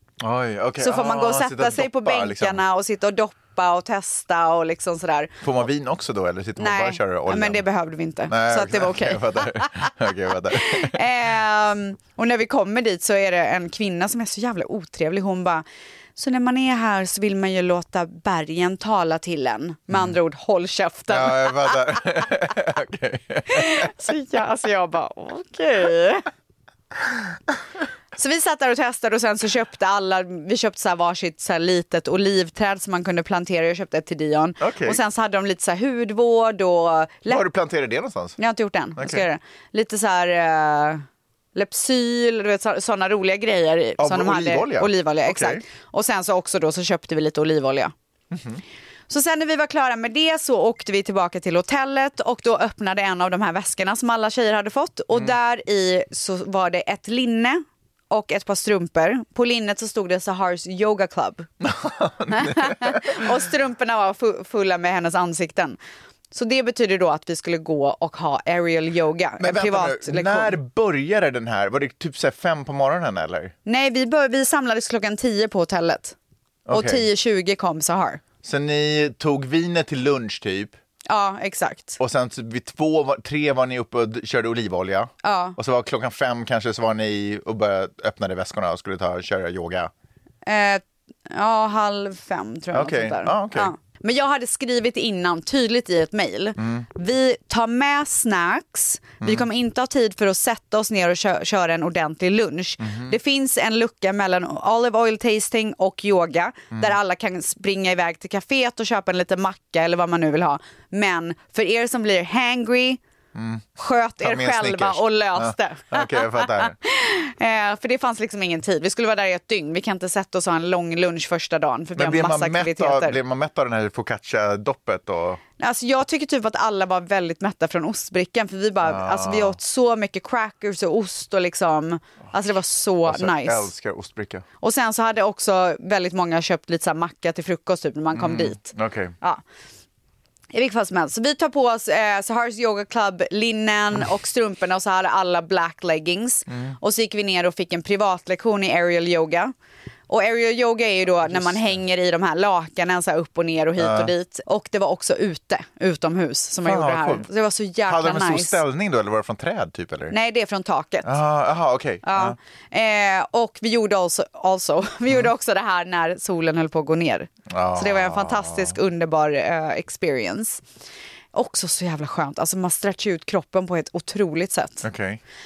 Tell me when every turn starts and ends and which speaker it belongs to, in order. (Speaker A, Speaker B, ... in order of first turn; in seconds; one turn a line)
Speaker A: 0.2-2.6
Speaker B: 0.8-5.4
Speaker A: 5.4-7.6
Speaker B: 6.6-9.9
Speaker A: 8.3-11.0
Speaker B: 10.5-15.6
Speaker B: 16.2-22.0
Speaker A: 19.9-20.1
Speaker A: 21.1-23.9
Speaker B: 23.5-26.2
Speaker B: 28.2-37.4
Speaker A: 34.6-35.0
Speaker A: 37.3-38.4
Speaker B: 38.4-47.9
Speaker A: 39.0-39.2
Speaker A: 44.0-45.6
Speaker A: 48.3-48.6
Speaker B: 49.1-61.5
Speaker A: 61.6-63.3
Speaker B: 62.3-65.8
Speaker B: 66.3-70.6
Speaker A: 69.4-73.5
Speaker B: 73.7-76.2
Speaker A: 76.7-77.1
Speaker B: 76.7-78.2
Speaker A: 78.4-80.8
Speaker B: 81.1-82.0
Speaker A: 82.0-89.9
Speaker B: 85.2-85.6
Speaker B: 90.5-113.0
Speaker A: 92.7-93.7
Speaker A: 96.6-96.9
Speaker A: 102.8-103.2
Speaker A: 113.3-113.7
Speaker B: 113.8-123.2
Speaker A: 114.2-116.8
Speaker A: 122.0-125.4
Speaker B: 125.6-133.7
Speaker A: 128.8-129.6
Speaker A: 133.1-134.4
Speaker B: 134.6-139.4
Speaker A: 138.1-139.2
Speaker B: 140.5-149.5
Speaker A: 146.5-146.8
Speaker B: 150.1-158.6
Speaker A: 151.2-151.8
Speaker A: 153.8-154.1
Speaker A: 156.7-157.3
Speaker A: 157.9-160.2
Speaker B: 160.1-161.2
Speaker A: 161.1-162.4
Speaker B: 162.1-170.6
Speaker A: 167.5-168.8
Speaker B: 171.3-174.9
Speaker A: 174.8-175.2